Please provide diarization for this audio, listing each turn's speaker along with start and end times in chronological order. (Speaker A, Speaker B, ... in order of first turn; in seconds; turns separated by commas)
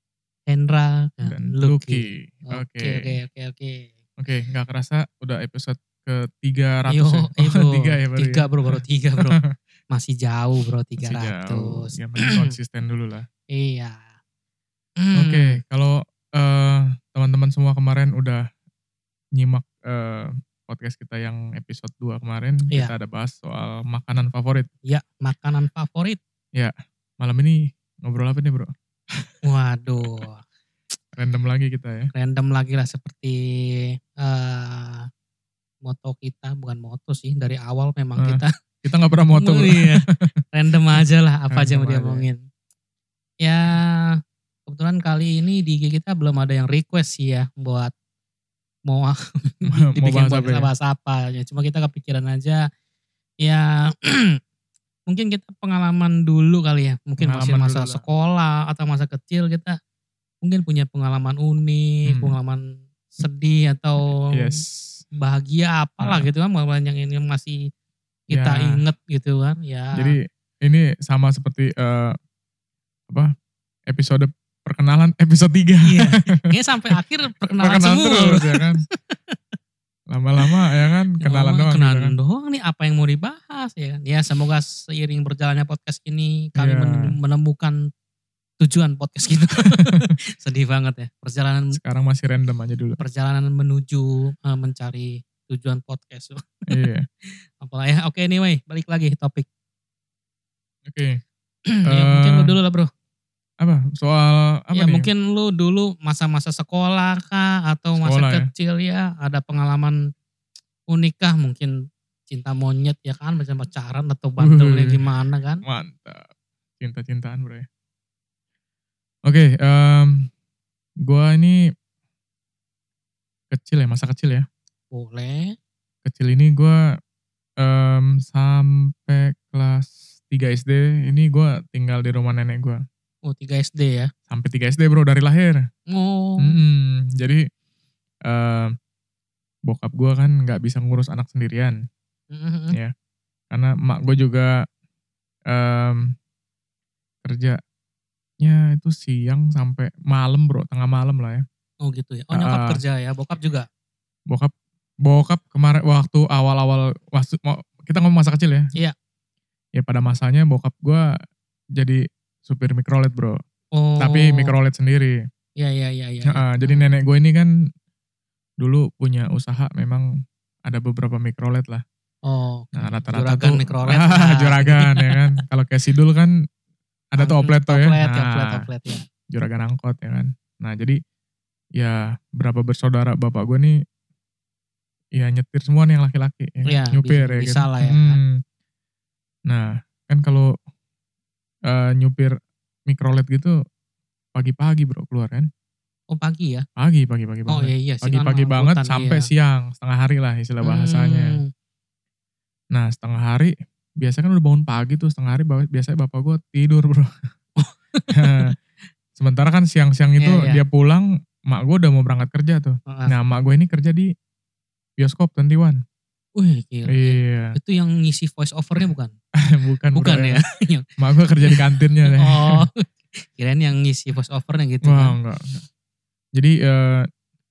Speaker A: 0.5-3.9, Speaker B: 1.2-3.1, Speaker B: 4.2-8.8, Speaker A: 6.9-9.4, Speaker A: 9.9-12.5, Speaker B: 11.0-13.3, Speaker A: 13.5-14.0, Speaker A: 15.0-15.6, Speaker B: 15.1-18.4, Speaker B: 19.4-24.7, Speaker A: 24.9-26.2, Speaker B: 26.6-29.3, Speaker A: 29.4-30.4, Speaker B: 31.1-32.1, Speaker A: 32.1-35.0, Speaker A: 35.8-38.5, Speaker B: 38.2-40.0, Speaker A: 39.3-42.4, Speaker B: 41.5-42.3, Speaker A: 43.4-47.9, Speaker A: 48.9-52.6, Speaker B: 49.7-50.7, Speaker A: 53.4-54.4, Speaker A: 55.1-59.8, Speaker B: 57.2-58.0, Speaker A: 60.4-64.5, Speaker B: 62.1-62.4, Speaker B: 64.1-65.0, Speaker A: 65.2-67.6, Speaker B: 66.0-66.3, Speaker A: 68.3-70.2, Speaker B: 68.3-68.8, Speaker B: 69.9-72.2, Speaker B: 73.9-76.4, Speaker A: 75.8-79.4, Speaker B: 77.6-78.8, Speaker B: 80.1-82.1, Speaker A: 81.2-87.8, Speaker B: 86.6-87.1, Speaker A: 88.6-91.8, Speaker B: 89.7-90.1, Speaker B: 91.7-93.0, Speaker A: 93.0-96.7, Speaker B: 96.7-97.0, Speaker A: 97.2-99.5, Speaker B: 100.8-101.2, Speaker A: 101.7-102.9, Speaker B: 101.9-102.5, Speaker B: 103.6-105.1, Speaker A: 104.7-110.0, Speaker B: 108.0-108.4, Speaker A: 110.9-111.7, Speaker A: 112.3-115.6, Speaker B: 114.4-115.0, Speaker B: 115.6-116.3, Speaker B: 116.8-117.7, Speaker B: 119.3-120.3, Speaker B: 121.0-121.6, Speaker B: 123.5-124.5, Speaker A: 124.9-125.5, Speaker B: 126.0-126.8, Speaker B: 127.6-132.8, Speaker A: 133.3-134.1, Speaker B: 134.3-135.6, Speaker A: 135.9-136.6, Speaker B: 136.4-137.4, Speaker B: 138.3-138.7, Speaker B: 139.7-141.8, Speaker A: 142.3-142.8, Speaker B: 143.5-144.5, Speaker B: 145.5-146.0, Speaker B: 147.2-147.6, Speaker B: 148.4-151.4, Speaker A: 151.8-153.7, Speaker B: 152.3-152.8, Speaker B: 155.0-158.7, Speaker B: 159.8-161.0, Speaker B: 161.8-163.3, Speaker A: 163.8-164.5, Speaker B: 164.0-165.2, Speaker A: 165.6-166.8, Speaker B: 166.3-167.5, Speaker B: 168.6-170.1, Speaker B: 170.7-171.8, Speaker A: 172.2-175.4, Speaker B: 172.7-176.3, Speaker B: 177.1-178.6, Speaker A: 177.2-179.0, Speaker B: 179.3-181.0, Speaker B: 181.8-183.8, Speaker B: 185.2-188.4, Speaker A: 186.7-188.2, Speaker B: 189.5-190.5, Speaker B: 191.7-192.3, Speaker B: 192.9-193.5, Speaker B: 194.3-195.5, Speaker A: 196.1-196.6, Speaker B: 196.8-201.3, Speaker A: 197.5-199.3, Speaker A: 200.6-201.5, Speaker B: 202.7-207.1, Speaker A: 207.6-208.5, Speaker B: 208.1-208.5, Speaker B: 209.2-214.1, Speaker A: 210.2-210.6, Speaker B: 215.0-215.8, Speaker A: 216.4-219.1, Speaker B: 216.9-217.6, Speaker B: 219.4-220.4, Speaker A: 219.9-220.8, Speaker B: 221.0-222.6, Speaker A: 221.4-225.2, Speaker B: 224.8-225.6, Speaker B: 226.3-227.1